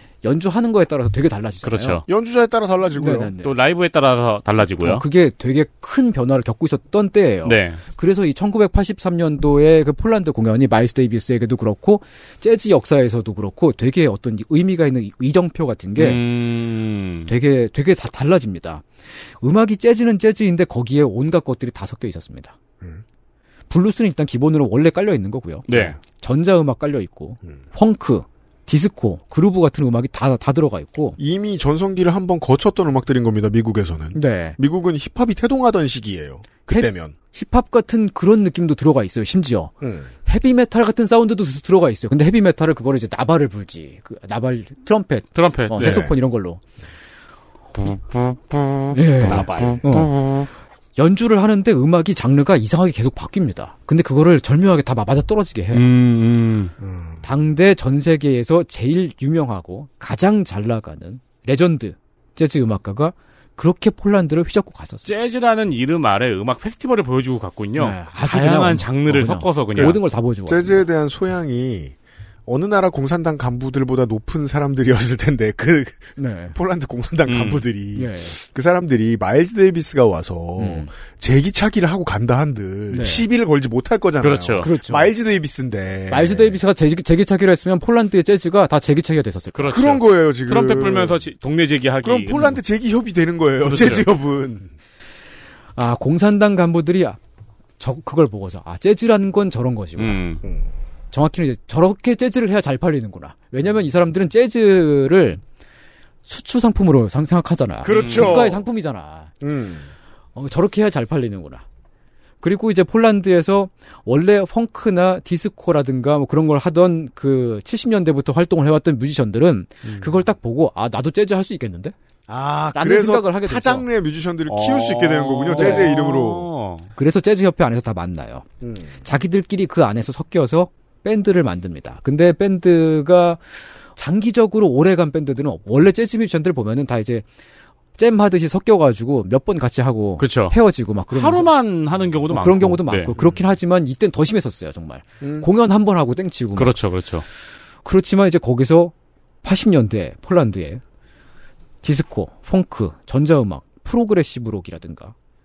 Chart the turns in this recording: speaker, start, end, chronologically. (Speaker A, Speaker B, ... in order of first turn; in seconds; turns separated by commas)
Speaker A: 0.2-2.0, Speaker B: 1.6-2.0, Speaker C: 2.1-3.3, Speaker A: 3.0-3.5, Speaker B: 3.4-5.0, Speaker A: 4.8-16.2, Speaker B: 7.5-7.8, Speaker B: 16.0-17.3, Speaker A: 17.3-18.9, Speaker A: 19.4-22.6, Speaker A: 23.7-31.2, Speaker B: 25.7-26.0, Speaker C: 31.2-37.1, Speaker A: 34.1-34.6, Speaker A: 36.7-39.7, Speaker C: 39.8-40.1, Speaker A: 40.3-46.6, Speaker B: 45.4-46.1, Speaker C: 45.8-46.1, Speaker B: 47.8-49.8, Speaker A: 48.9-50.1, Speaker C: 49.2-50.0, Speaker A: 51.0-55.8, Speaker B: 55.7-56.7, Speaker C: 56.8-57.2, Speaker A: 57.2-65.1, Speaker B: 65.0-70.0, Speaker A: 67.8-70.9, Speaker C: 69.8-72.0, Speaker C: 72.5-86.6, Speaker A: 76.2-76.6, Speaker B: 77.3-77.7, Speaker A: 78.0-78.3, Speaker A: 80.6-80.9, Speaker A: 82.9-83.2, Speaker B: 84.2-84.7, Speaker A: 84.6-85.1, Speaker A: 86.1-89.7, Speaker B: 89.5-92.6, Speaker C: 89.7-91.2, Speaker C: 92.0-94.7, Speaker B: 93.6-94.1, Speaker A: 95.8-97.2, Speaker A: 97.8-100.2, Speaker B: 100.0-100.4, Speaker A: 101.1-105.4, Speaker A: 106.3-109.3, Speaker C: 107.8-108.6, Speaker B: 107.9-108.5, Speaker C: 109.4-109.9, Speaker A: 110.4-111.6, Speaker A: 112.4-121.9, Speaker C: 119.9-120.1, Speaker C: 122.3-126.5, Speaker A: 122.8-123.9, Speaker B: 124.5-126.9, Speaker A: 125.5-125.9, Speaker A: 127.0-128.4, Speaker C: 128.6-128.9, Speaker A: 129.0-133.4, Speaker A: 134.0-137.2, Speaker A: 138.0-141.5, Speaker B: 140.2-140.6, Speaker B: 141.1-143.1, Speaker A: 142.3-146.7, Speaker B: 146.6-147.2, Speaker A: 147.8-150.8, Speaker A: 151.8-155.1